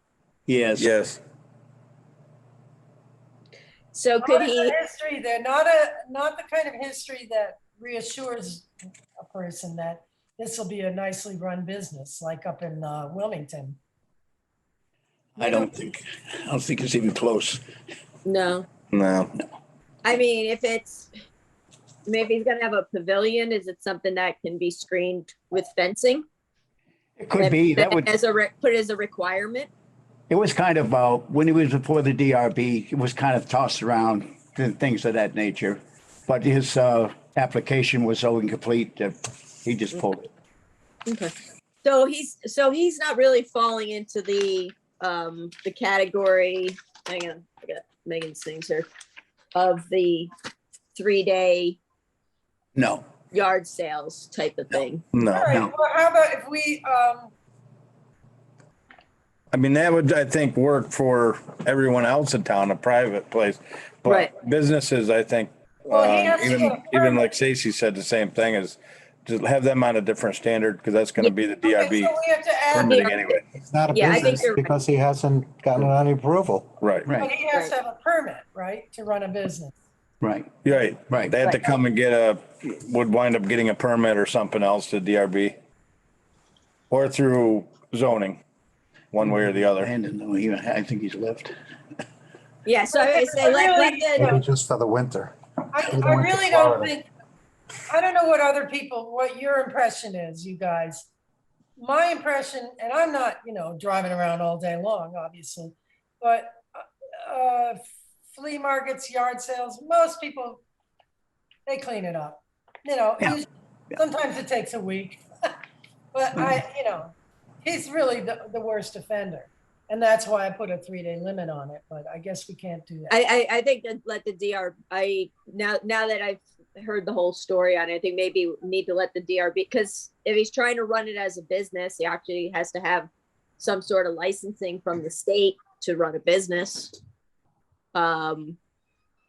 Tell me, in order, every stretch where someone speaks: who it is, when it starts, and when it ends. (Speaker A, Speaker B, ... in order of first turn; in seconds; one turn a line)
Speaker A: 0.5-0.9
Speaker B: 0.8-1.2
Speaker C: 3.9-4.8
Speaker D: 4.2-8.7
Speaker D: 9.2-13.8
Speaker A: 15.4-17.6
Speaker C: 18.2-18.6
Speaker B: 18.9-19.3
Speaker C: 20.0-21.1
Speaker C: 22.1-26.2
Speaker A: 27.2-28.1
Speaker C: 27.4-29.7
Speaker A: 30.3-40.3
Speaker C: 41.1-41.3
Speaker C: 41.8-48.9
Speaker C: 49.5-50.3
Speaker C: 50.9-51.8
Speaker A: 52.7-53.0
Speaker C: 53.3-55.0
Speaker B: 55.1-55.5
Speaker D: 55.2-57.3
Speaker B: 59.5-72.1
Speaker C: 64.0-64.3
Speaker D: 65.9-67.3
Speaker D: 71.6-73.0
Speaker B: 72.7-73.4
Speaker C: 72.8-73.2
Speaker E: 73.5-76.8
Speaker C: 73.9-74.7
Speaker B: 76.8-77.1
Speaker A: 77.0-77.3
Speaker D: 77.2-79.7
Speaker A: 80.2-80.5
Speaker B: 80.6-85.5
Speaker A: 81.1-81.4
Speaker B: 86.9-88.4
Speaker B: 89.1-89.9
Speaker A: 89.2-91.5
Speaker C: 92.6-94.4
Speaker D: 92.9-94.4
Speaker E: 94.2-96.9
Speaker D: 95.7-97.1
Speaker D: 97.9-101.1
Speaker D: 101.8-110.6
Speaker D: 111.7-115.5
Speaker D: 116.1-123.1
Speaker C: 123.1-136.9
Speaker C: 137.9-138.6